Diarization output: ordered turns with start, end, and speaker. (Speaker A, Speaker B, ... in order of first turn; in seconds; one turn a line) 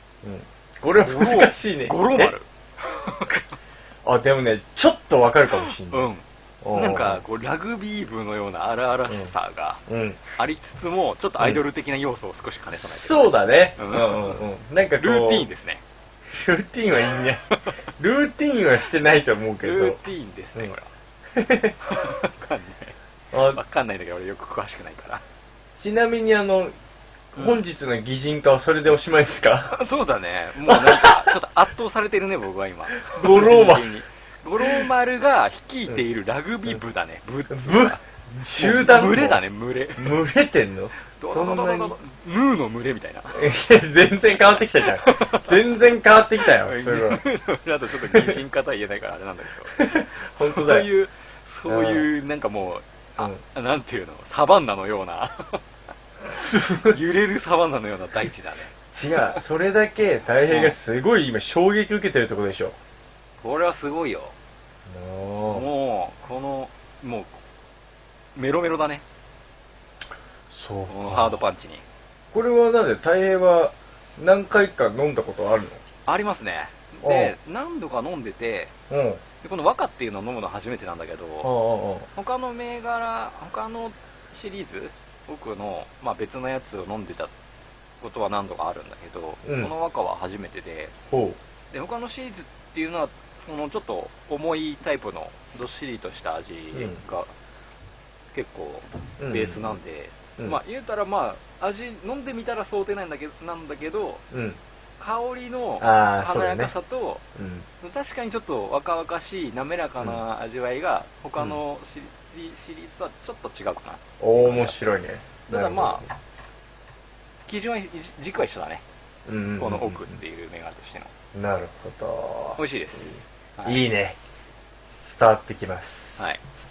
Speaker A: 0.2-2.3
Speaker B: 1.0-3.4
Speaker A: 4.0-6.1
Speaker B: 5.5-9.8
Speaker A: 6.6-7.2
Speaker A: 9.1-9.3
Speaker A: 9.9-10.2
Speaker B: 10.3-14.4
Speaker A: 12.7-15.4
Speaker B: 15.0-15.8
Speaker A: 16.3-17.5
Speaker A: 18.0-20.0
Speaker B: 19.6-20.9
Speaker A: 21.3-21.8
Speaker B: 21.8-25.2
Speaker A: 23.3-23.6
Speaker A: 25.7-26.7
Speaker B: 27.3-27.6
Speaker A: 27.3-29.7
Speaker B: 29.7-38.0
Speaker A: 30.6-31.4
Speaker A: 33.0-34.0
Speaker A: 37.5-39.4
Speaker B: 38.6-40.2
Speaker A: 40.0-41.9
Speaker B: 41.1-43.4
Speaker A: 43.3-47.2
Speaker B: 44.9-45.5
Speaker B: 46.5-55.6
Speaker A: 48.0-48.4
Speaker A: 49.7-50.9
Speaker A: 51.7-52.1
Speaker A: 56.2-57.0
Speaker B: 56.8-58.7
Speaker A: 58.9-62.8
Speaker B: 60.5-60.7
Speaker B: 63.4-64.3
Speaker A: 64.8-65.7
Speaker B: 65.5-67.4
Speaker B: 68.3-69.0
Speaker A: 70.5-71.4
Speaker B: 70.9-71.8
Speaker A: 72.3-75.8
Speaker B: 76.0-78.7
Speaker A: 77.0-77.3
Speaker A: 78.9-79.2
Speaker B: 79.4-81.5
Speaker A: 81.4-82.1
Speaker B: 82.1-87.3
Speaker B: 88.0-90.9
Speaker A: 89.4-89.7
Speaker A: 91.1-91.4
Speaker B: 91.7-97.3
Speaker A: 96.7-97.0
Speaker B: 98.3-104.2
Speaker A: 99.2-99.8
Speaker A: 104.3-104.6
Speaker B: 105.0-107.2
Speaker A: 105.8-106.7
Speaker A: 107.3-107.7
Speaker B: 107.8-114.9
Speaker A: 114.2-116.1
Speaker B: 115.5-116.0
Speaker B: 117.5-118.8
Speaker A: 119.2-120.1
Speaker B: 119.6-121.1
Speaker A: 121.3-124.2
Speaker B: 122.5-123.8
Speaker A: 125.0-126.3
Speaker B: 126.2-126.4